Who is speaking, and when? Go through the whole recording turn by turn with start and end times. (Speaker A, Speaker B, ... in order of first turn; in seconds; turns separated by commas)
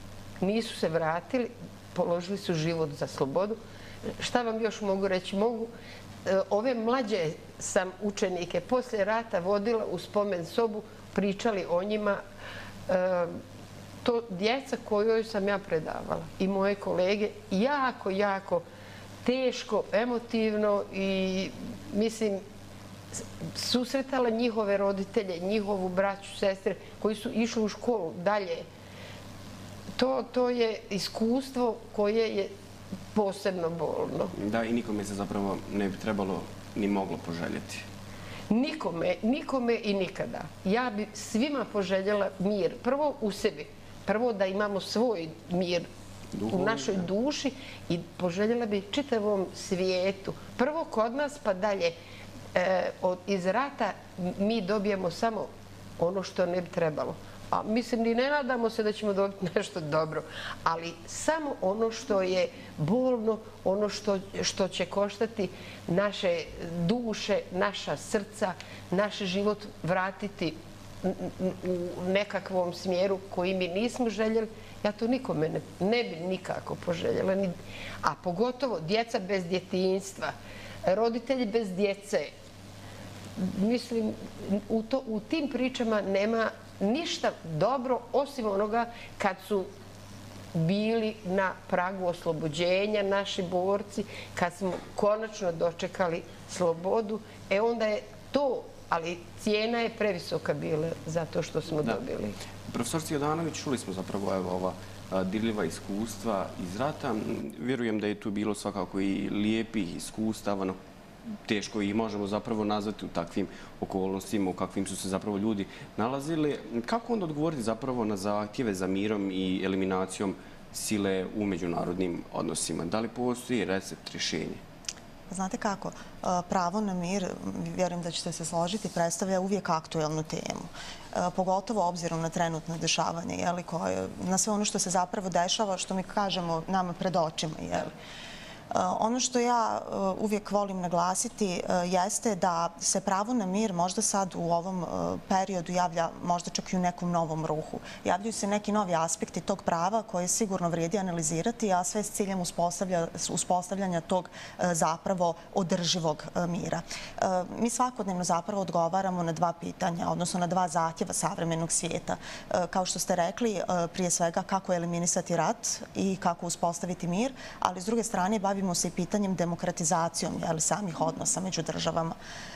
Speaker A: 0.4-3.6, Speaker A: 4.2-5.7, Speaker A: 6.2-12.2, Speaker A: 12.9-13.4, Speaker A: 14.0-18.6, Speaker A: 19.2-22.4, Speaker A: 23.1-28.6, Speaker A: 29.9-32.5, Speaker A: 33.1-34.3, Speaker B: 34.4-37.9, Speaker A: 38.5-45.9, Speaker B: 46.3-47.1, Speaker A: 46.5-51.9, Speaker A: 52.5-55.5, Speaker A: 56.0-80.3, Speaker A: 80.8-82.3, Speaker A: 83.4-89.7, Speaker A: 90.5-102.4, Speaker B: 102.7-110.8, Speaker B: 111.5-124.6, Speaker C: 125.3-137.9, Speaker C: 138.7-172.2